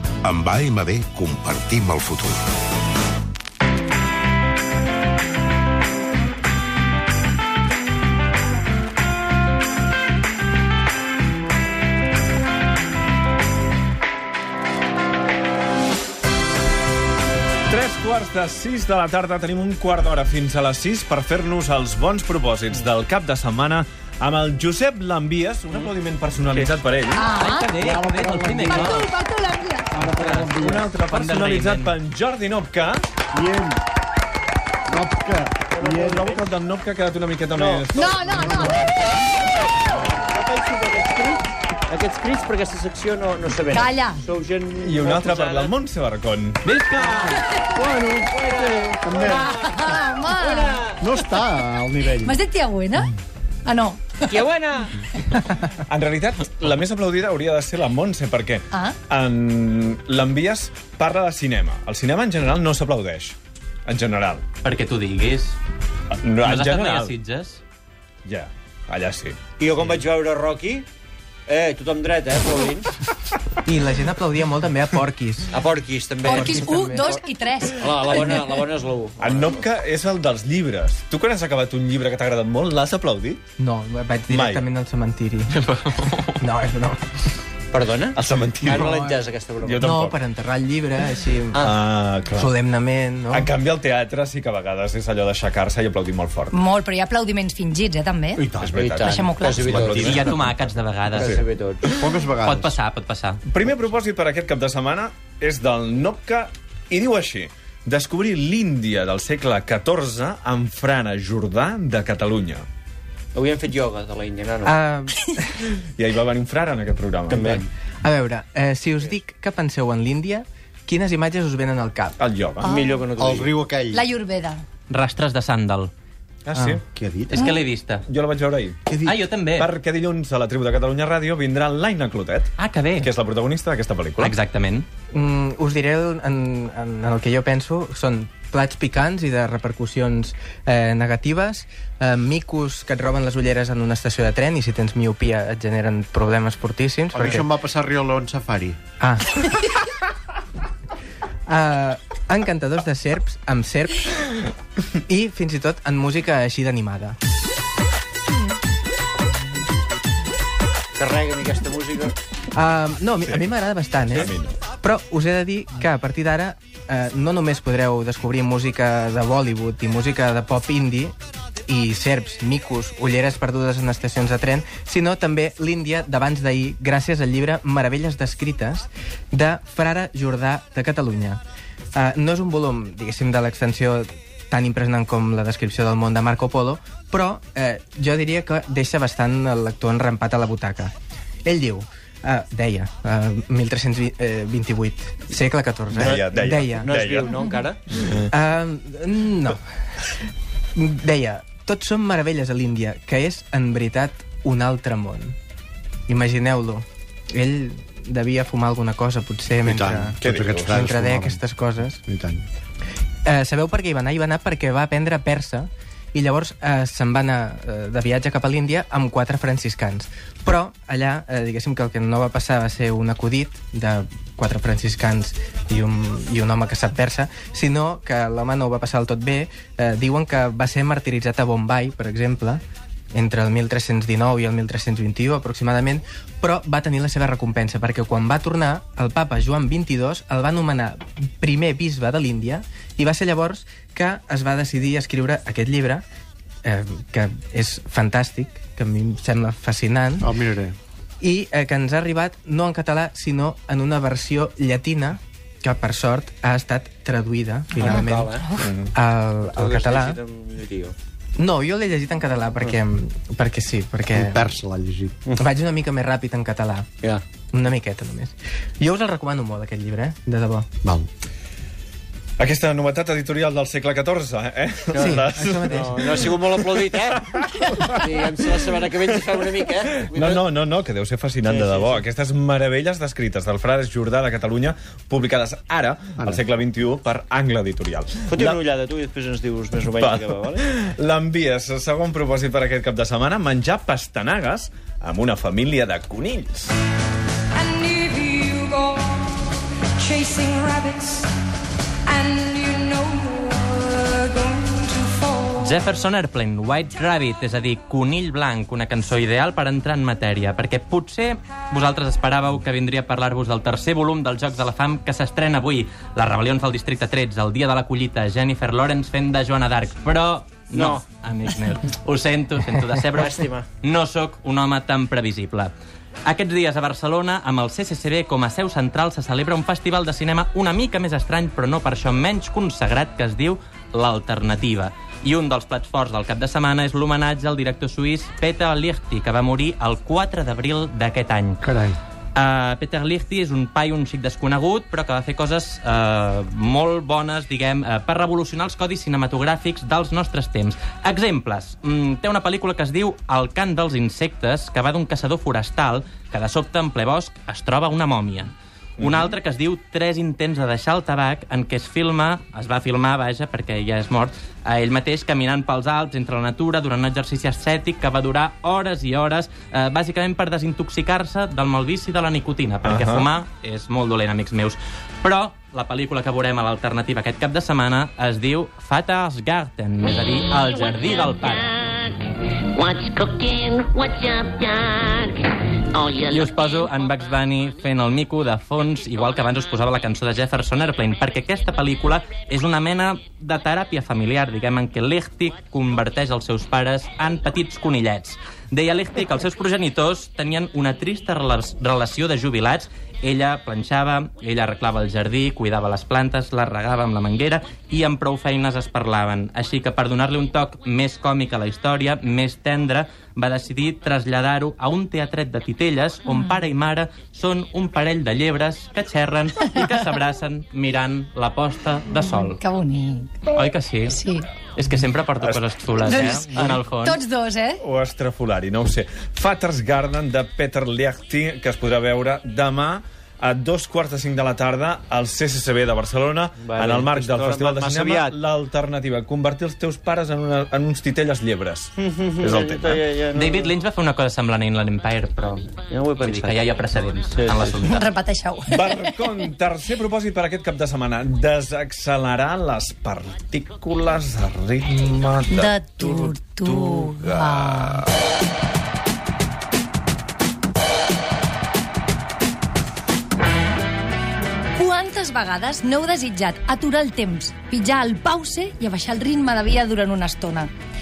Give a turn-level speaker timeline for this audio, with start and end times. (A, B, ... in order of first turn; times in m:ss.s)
0:00.2-0:02.4 A
0:17.7-0:27.3 B
0:27.1-0:28.0 C
0:27.3-0:29.1 D
0:27.8-0:29.0 E
0:28.7-0:29.9 C
0:30.0-0:30.9 E
0:30.0-0:32.0 D
0:30.5-0:33.1 B
0:33.3-0:33.8 E
0:34.9-0:36.5 E
0:35.7-0:36.4 F
0:35.9-0:38.6 B
0:37.9-0:38.9 C
0:38.4-0:38.8 E
0:40.2-0:45.8 F
0:43.7-0:44.2 C
0:44.8-0:46.6 B
0:46.6-0:47.4 D
0:47.0-0:51.0 F
0:47.3-0:47.7 C
0:47.8-0:49.7 E
0:49.3-0:50.9 C
0:50.9-0:52.4 E
0:52.2-0:53.1 C
0:53.6-0:54.4 C
0:54.3-0:54.9 F
0:55.7-1:04.4 B
1:04.6-1:05.6 D
1:06.2-1:07.2 B
1:06.4-1:07.6 D
1:08.2-1:09.4 B
1:09.6-1:10.9 F
1:11.5-1:12.9 F
1:13.7-1:15.7 G
1:15.5-1:16.7 F
1:16.2-1:17.2 G
1:16.3-1:18.5 C
1:17.8-1:19.6 F
1:19.2-1:23.4 B
1:23.6-1:25.6 G
1:24.3-1:24.6 B
1:25.6-1:26.3 D
1:26.4-1:27.0 G
1:27.7-1:29.9 F
1:28.2-1:28.9 B
1:28.6-1:29.3 G
1:29.6-1:30.2 B
1:29.8-1:31.7 G
1:31.6-1:32.5 B
1:32.3-1:33.5 G
1:33.3-1:36.6 B
1:36.5-1:38.5 C
1:38.4-1:38.8 E
1:38.6-1:40.2 B
1:38.7-1:40.4 F
1:39.0-1:39.8 C
1:39.6-1:40.3 E
1:39.8-1:41.4 D
1:41.1-1:41.9 F
1:41.2-1:42.2 B
1:42.0-1:42.7 E
1:42.4-1:43.4 D
1:43.5-1:52.6 B
1:53.4-1:54.8 F
1:54.6-1:55.6 G
1:56.0-1:57.6 B
1:58.0-2:02.2 G
2:02.2-2:02.8 B
2:02.6-2:03.1 C
2:02.7-2:03.6 F
2:03.2-2:04.0 E
2:03.9-2:04.6 C
2:04.9-2:05.9 D
2:06.5-2:06.8 B
2:06.5-2:06.8 G
2:06.9-2:07.5 E
2:07.3-2:08.0 D
2:08.1-2:08.9 B
2:08.9-2:09.2 G
2:09.0-2:09.7 D
2:09.6-2:14.4 B
2:12.6-2:13.1 D
2:14.2-2:14.9 D
2:15.1-2:27.5 G
2:27.1-2:28.8 E
2:29.0-2:29.4 G
2:31.5-2:34.1 G
2:35.1-2:37.2 G
2:41.0-2:42.1 F
2:42.5-2:51.1 G
2:44.2-2:44.6 B
2:51.7-3:01.4 G
3:02.0-3:10.9 G
3:11.4-3:17.0 G
3:15.9-3:17.4 B
3:16.0-3:17.9 F
3:18.0-3:18.2 B
3:18.2-3:19.6 G
3:20.8-3:25.4 G
3:26.1-3:32.0 G
3:29.6-3:31.4 E
3:30.2-3:30.8 B
3:32.0-3:32.4 E
3:33.2-3:52.6 G
3:53.1-4:06.0 G
4:06.6-4:10.3 G
4:10.2-4:10.8 E
4:11.2-4:20.2 G
4:17.8-4:18.4 F
4:17.8-4:18.7 C
4:18.6-4:18.9 B
4:19.4-4:21.0 F
4:21.4-4:24.5 G
4:24.1-4:25.2 E
4:25.4-4:26.9 G
4:27.5-4:30.7 G
4:32.4-4:48.6 B
4:35.0-4:36.4 G
4:35.7-4:37.2 F
4:37.9-4:40.5 F
4:41.4-4:42.0 F
4:48.3-4:50.6 F
4:49.9-4:56.7 B
4:57.9-4:58.8 H
5:00.1-5:01.3 H
5:02.1-5:05.4 H
5:05.6-5:25.7 D
5:20.7-5:21.0 F
5:23.1-5:23.7 F
5:26.3-5:41.8 D
5:41.7-5:42.0 E
5:42.4-6:21.8 D
5:59.0-5:59.3 B
6:12.8-6:13.3 B
6:22.7-6:25.4 I
6:25.9-6:26.4 I
6:26.3-7:02.6 D
7:02.3-7:03.5 C
7:03.6-7:04.2 D
7:04.1-7:04.5 C
7:04.8-7:07.2 D
7:05.4-7:06.7 B
7:06.0-7:07.8 C
7:07.8-7:23.0 B
7:16.6-7:18.4 F
7:22.0-7:23.7 F
7:23.3-7:28.1 D
7:25.9-7:26.6 F
7:27.3-7:27.8 F
7:27.9-7:29.1 C
7:28.7-7:38.1 B
7:35.5-7:38.0 C
7:44.8-7:50.7 C